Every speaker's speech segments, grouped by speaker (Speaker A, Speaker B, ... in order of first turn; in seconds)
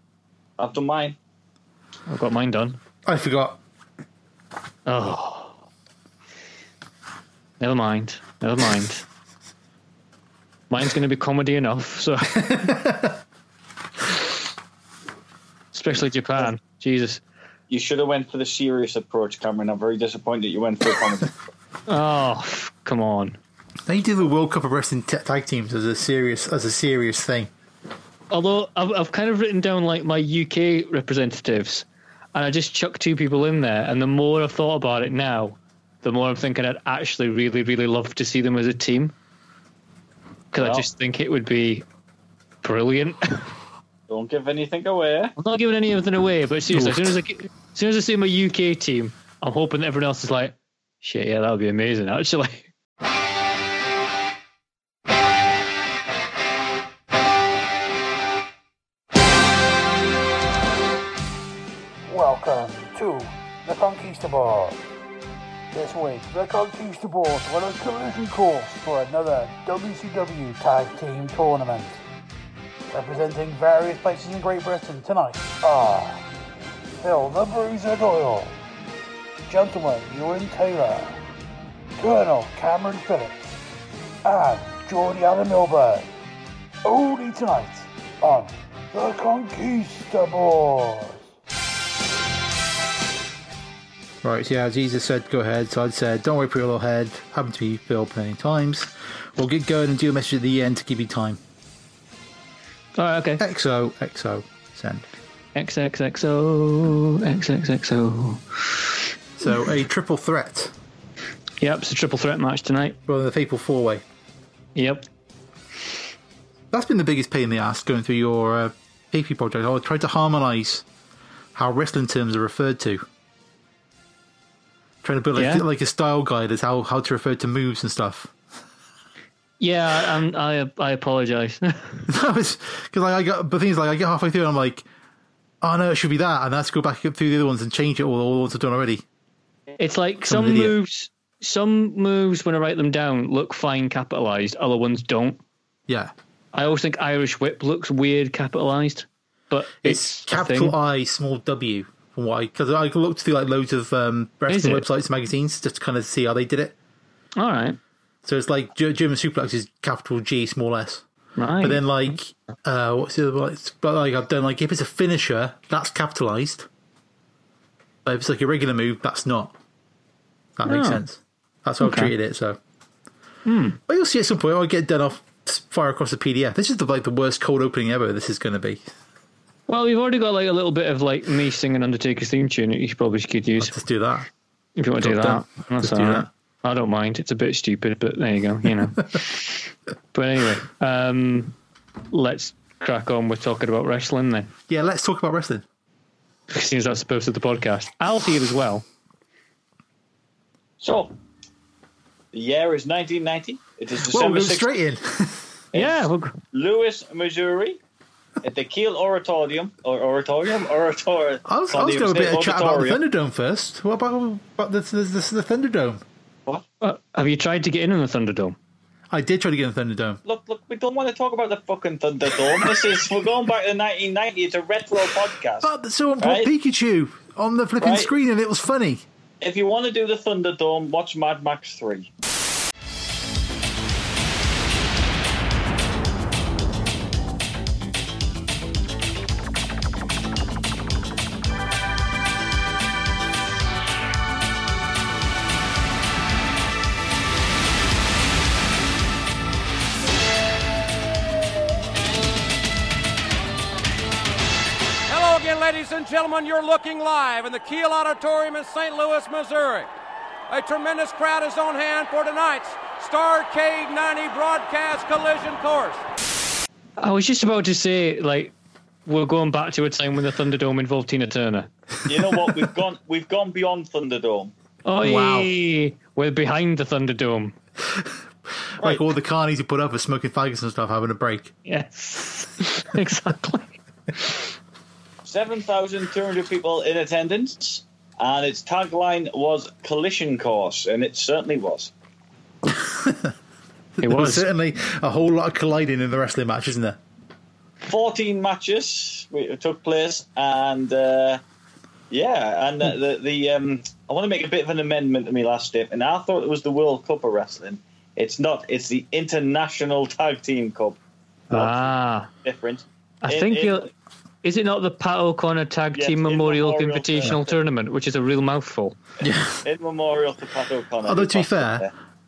Speaker A: 0.6-1.2, 17.7-21.4, 40.6-40.9, 44.1-45.3, 200.8-201.2, 202.3-204.7, 205.7-207.8, 208.4-213.0, 220.2-226.5, 227.8-228.1, 229.4-232.1, 272.1-274.5, 285.2-291.9, 297.9-301.4, 302.1-311.0, 311.5-311.9, 312.4-313.9, 315.9-317.5, 319.2-321.9
Speaker B: 2.1-2.8, 4.9-5.6, 7.6-9.1, 10.7-12.4, 15.7-17.2, 21.9-23.4, 28.3-39.1, 40.5-41.8, 42.6-43.5, 45.4-52.7, 103.0-103.4, 105.5-109.0, 111.6-113.0, 114.8-115.0, 125.4-125.6, 129.6-132.1, 139.8-145.4, 146.5-150.8, 154.5-154.9, 157.4-157.8, 161.4-161.8, 170.7-171.0, 171.8-172.1, 173.5-173.8, 179.7-183.7, 184.8-191.6, 192.1-194.5, 196.5-198.8, 205.8-206.4, 216.8-218.6, 267.0-268.5, 269.1-271.7, 274.9-277.6, 281.7-284.4, 294.0-294.5, 311.5-312.3, 313.2-313.9, 314.4-319.0
Speaker C: 3.0-3.6, 12.3-13.2, 23.9-27.5, 46.7-47.2, 94.2-101.4, 103.4-105.0, 109.4-110.7, 113.1-114.0, 116.7-120.8, 121.5-123.1, 125.0-128.3, 132.1-134.8, 135.6-139.0, 140.2-140.8, 145.9-146.1, 149.8-156.8, 158.2-161.0, 161.6-166.7, 168.1-169.5, 170.6-172.6, 173.9-178.9, 183.6-184.3, 185.0-186.3, 194.7-195.6, 204.1-205.5, 211.5-216.0, 219.1-220.2, 225.6-229.0, 275.0-275.5, 278.8-281.5, 292.7-293.3, 294.0-297.0, 319.2-319.6, 321.0-321.9
Speaker D: 62.1-64.8, 65.7-72.0, 72.9-76.2, 77.0-78.6, 79.5-81.2, 82.0-83.6, 84.2-86.1, 86.8-91.2
Speaker E: 255.1-259.9, 260.5-266.0